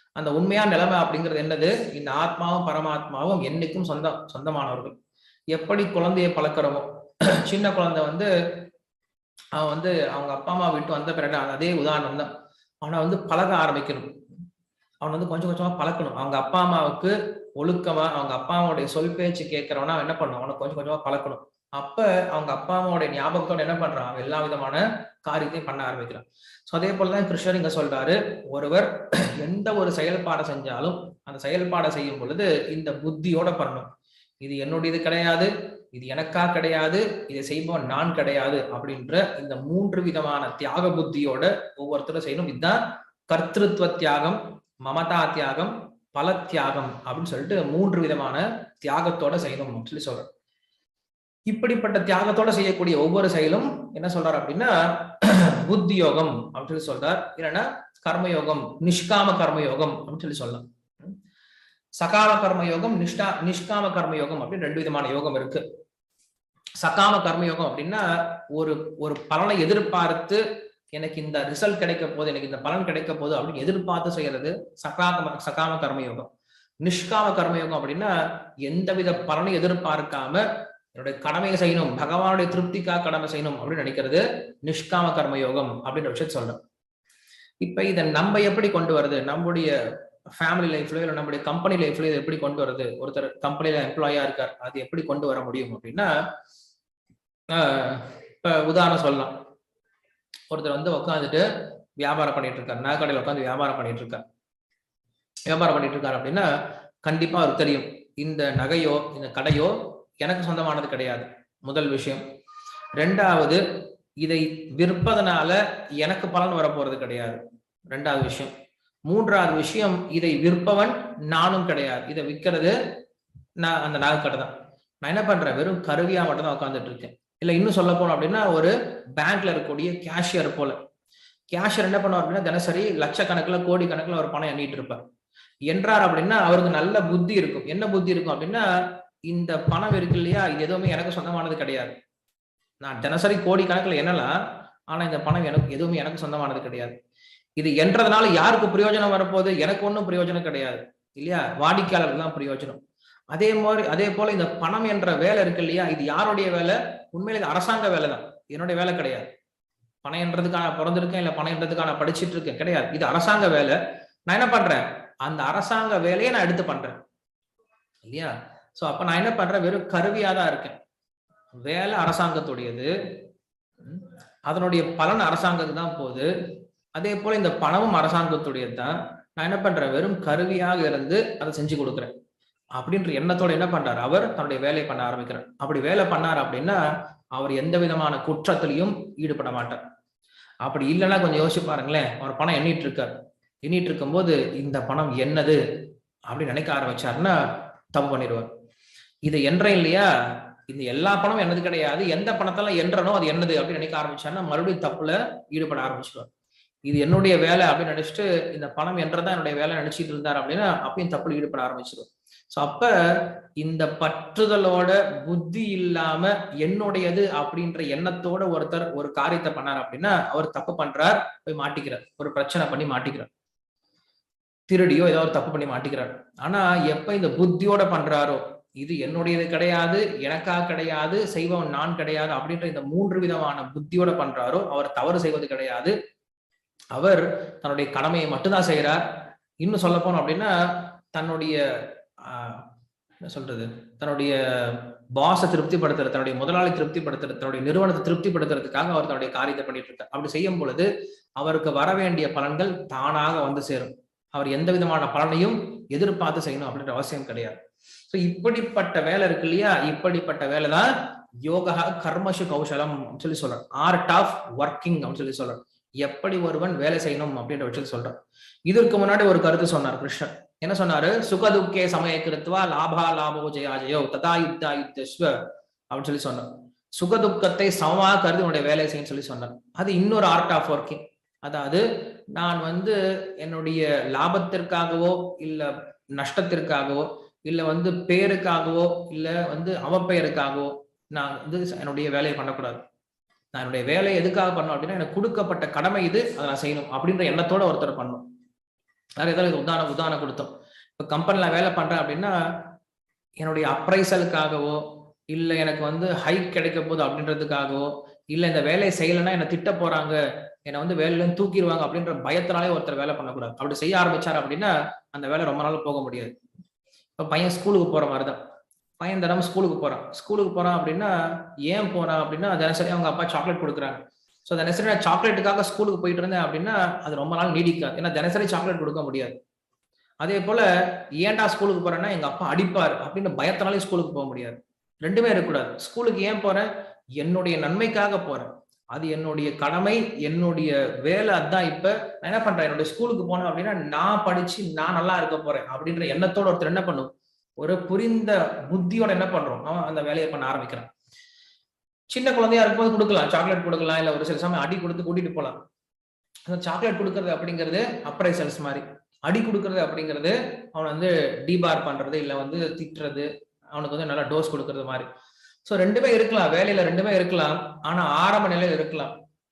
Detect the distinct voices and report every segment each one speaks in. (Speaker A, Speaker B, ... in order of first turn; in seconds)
Speaker A: 0.1-5.0, 5.5-6.8, 7.4-8.3, 9.6-12.3, 12.8-14.1, 15.0-33.9, 34.4-50.3, 51.5-61.1, 62.0-65.6, 66.8-70.4, 71.0-76.3, 76.8-78.1, 78.6-86.6, 87.6-89.7, 90.3-96.1, 97.5-99.3, 100.5-101.4, 102.0-104.2, 105.5-106.5, 107.0-112.2, 113.0-113.6, 114.2-117.4, 117.9-118.5, 119.1-122.8, 123.6-130.8, 131.5-135.0, 135.7-138.6, 139.3-141.9, 142.8-144.3, 144.9-146.9, 147.6-152.8, 153.3-159.3, 160.0-167.0, 168.0-170.8, 171.6-172.9, 173.8-176.3, 176.9-182.1, 182.8-186.8, 187.4-189.8, 190.6-195.6, 196.3-197.4, 197.9-198.5, 199.2-206.3, 206.8-223.3, 224.7-235.9, 236.9-239.0, 239.6-240.5, 241.1-241.6, 242.2-242.6, 243.3-257.6, 258.1-260.9, 261.4-268.1, 268.7-275.4, 275.9-281.8, 282.3-292.8, 293.5-298.2, 299.2-302.3, 303.4-316.3, 317.2-318.4, 319.0-321.1, 321.6-329.4, 330.2-336.7, 337.2-350.9, 352.1-355.6, 356.5-365.1, 365.6-369.1